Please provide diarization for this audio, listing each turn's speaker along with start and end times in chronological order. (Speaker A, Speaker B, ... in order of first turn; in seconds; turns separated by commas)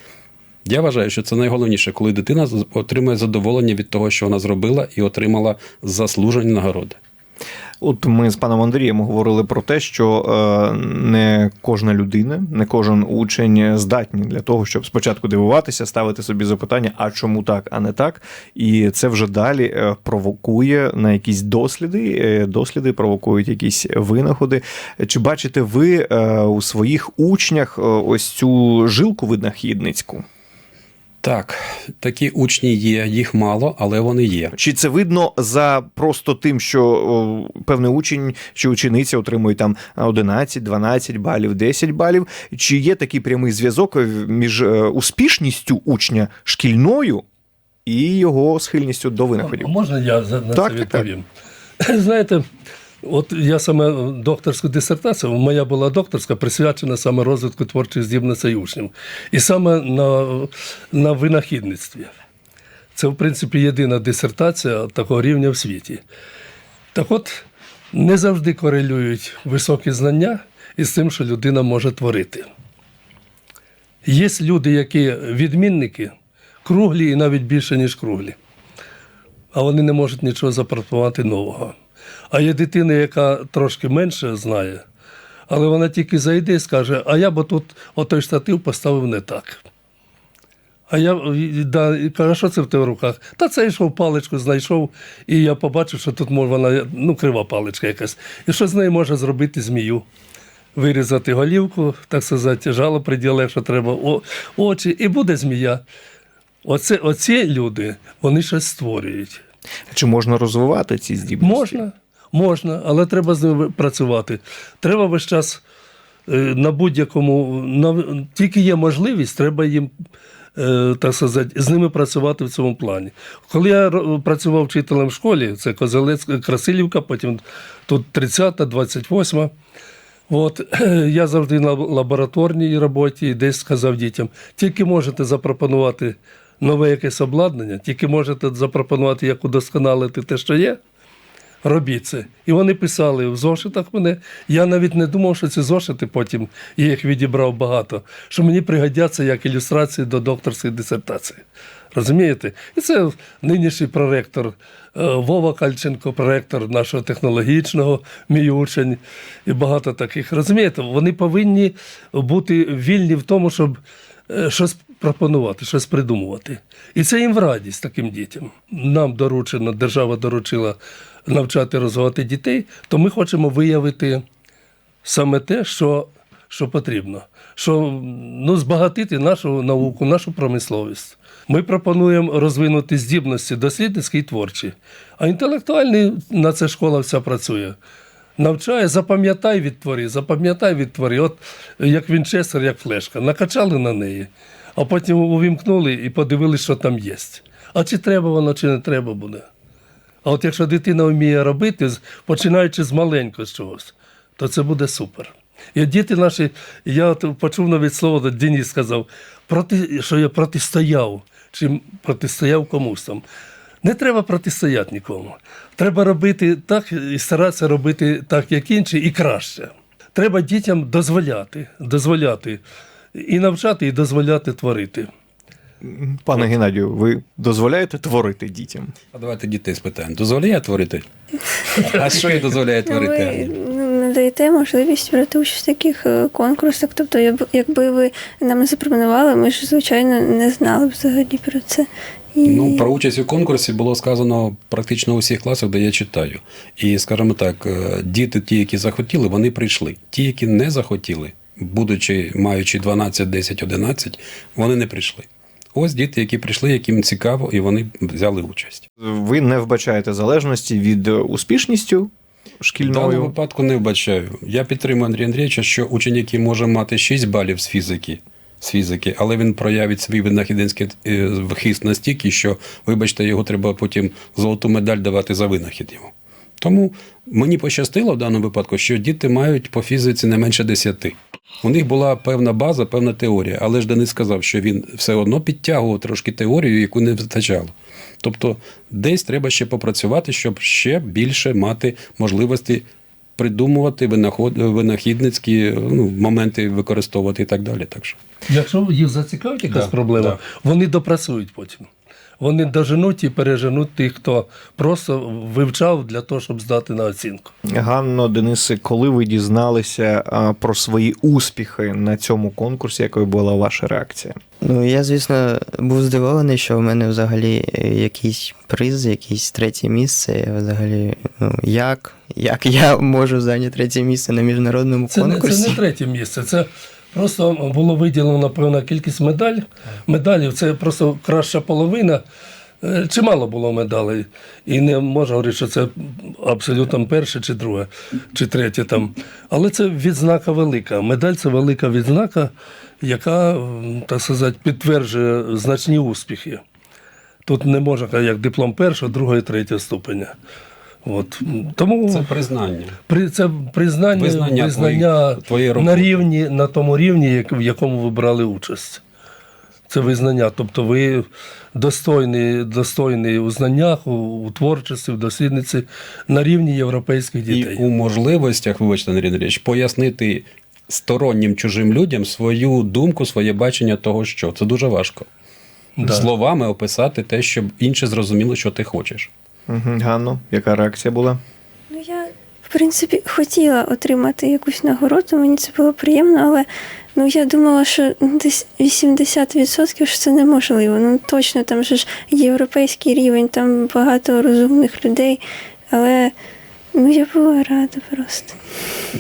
Speaker A: 0.7-7.0, Speaker B: 7.8-30.3, Speaker A: 31.2-34.5, Speaker B: 34.5-47.2, Speaker B: 47.9-49.7, Speaker C: 49.4-51.3, Speaker B: 50.5-51.0, Speaker C: 51.8-52.5, Speaker C: 53.0-62.1, Speaker C: 63.0-66.0, Speaker C: 66.9-72.5, Speaker C: 74.0-76.1, Speaker C: 76.7-78.4, Speaker C: 79.5-81.8, Speaker C: 82.3-84.8, Speaker C: 85.5-89.6, Speaker C: 90.9-100.0, Speaker C: 100.8-105.8, Speaker C: 106.7-109.4, Speaker B: 109.9-111.8, Speaker C: 111.4-115.6, Speaker C: 116.3-119.9, Speaker C: 120.6-129.5, Speaker C: 130.3-140.8, Speaker C: 141.6-163.8, Speaker C: 164.3-170.8, Speaker C: 171.3-174.2, Speaker C: 175.0-187.8, Speaker C: 188.4-199.5, Speaker C: 200.2-213.2, Speaker C: 213.8-222.6, Speaker C: 223.2-225.1, Speaker B: 225.8-228.9, Speaker A: 229.1-231.1, Speaker A: 231.7-233.5, Speaker D: 232.9-242.9, Speaker A: 242.4-258.9, Speaker B: 259.0-263.3, Speaker A: 262.8-292.9, Speaker A: 293.4-298.2, Speaker C: 298.5-301.9, Speaker A: 299.7-300.4, Speaker C: 302.4-307.5, Speaker B: 307.7-314.4, Speaker E: 314.6-325.8, Speaker C: 325.1-332.2, Speaker C: 332.8-346.6, Speaker C: 347.5-350.3, Speaker C: 351.1-352.3, Speaker A: 352.1-353.0, Speaker C: 353.1-359.0, Speaker A: 354.1-356.1, Speaker C: 359.9-367.9, Speaker A: 367.5-375.3, Speaker C: 376.0-376.3, Speaker A: 376.0-379.3, Speaker B: 379.7-381.4, Speaker D: 381.9-396.3, Speaker D: 396.9-398.6